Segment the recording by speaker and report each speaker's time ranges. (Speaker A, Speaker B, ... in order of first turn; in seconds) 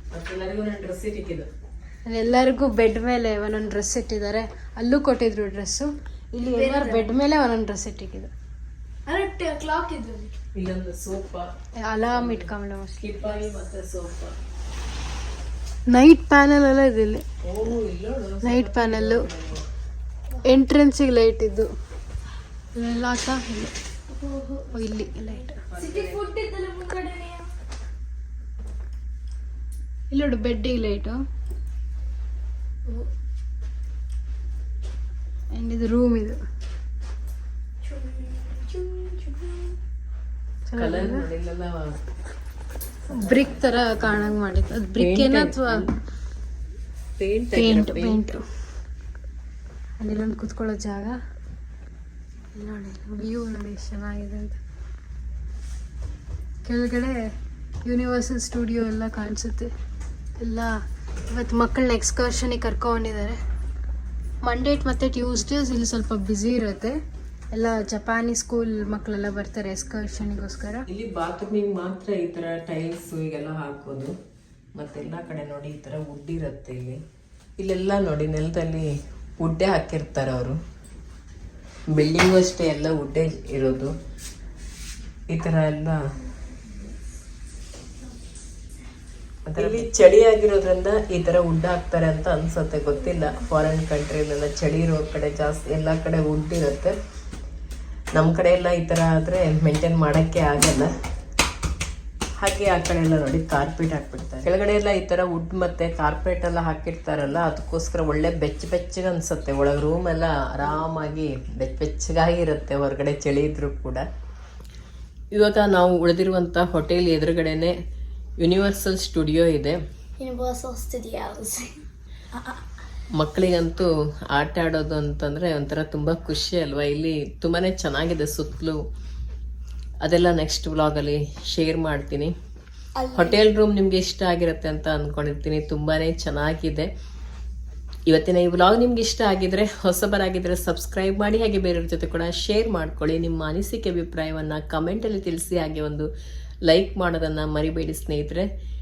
Speaker A: 0.1-1.5, 10.5-11.5, 12.1-12.5, 13.0-14.3, 17.4-19.6, 25.7-26.2, 40.8-41.9, 43.1-44.3, 45.0-45.9, 47.2-48.2, 70.9-74.1, 74.7-77.0, 77.6-80.6, 81.9-83.9, 85.3-86.0, 89.5-97.0, 98.2-100.9, 102.4-114.0, 115.3-117.7, 118.4-119.8, 123.2-128.8, 130.0-132.3, 133.1-136.9, 138.1-146.1, 146.7-148.5
Speaker B: 2.1-8.3, 11.8-13.3, 15.9-17.2, 18.4-19.2, 20.4-21.7, 22.7-23.7, 24.7-25.6, 30.1-31.2, 35.5-36.4, 40.7-41.2, 43.2-45.9, 47.5-48.4, 50.0-51.1, 52.5-54.6, 56.6-57.2, 57.8-59.7, 60.4-60.7, 61.3-63.4, 64.4-67.0, 67.5-70.8
Speaker C: 6.5-7.1, 9.1-10.3, 24.1-27.5, 37.8-39.7, 120.2-121.7, 132.9-133.4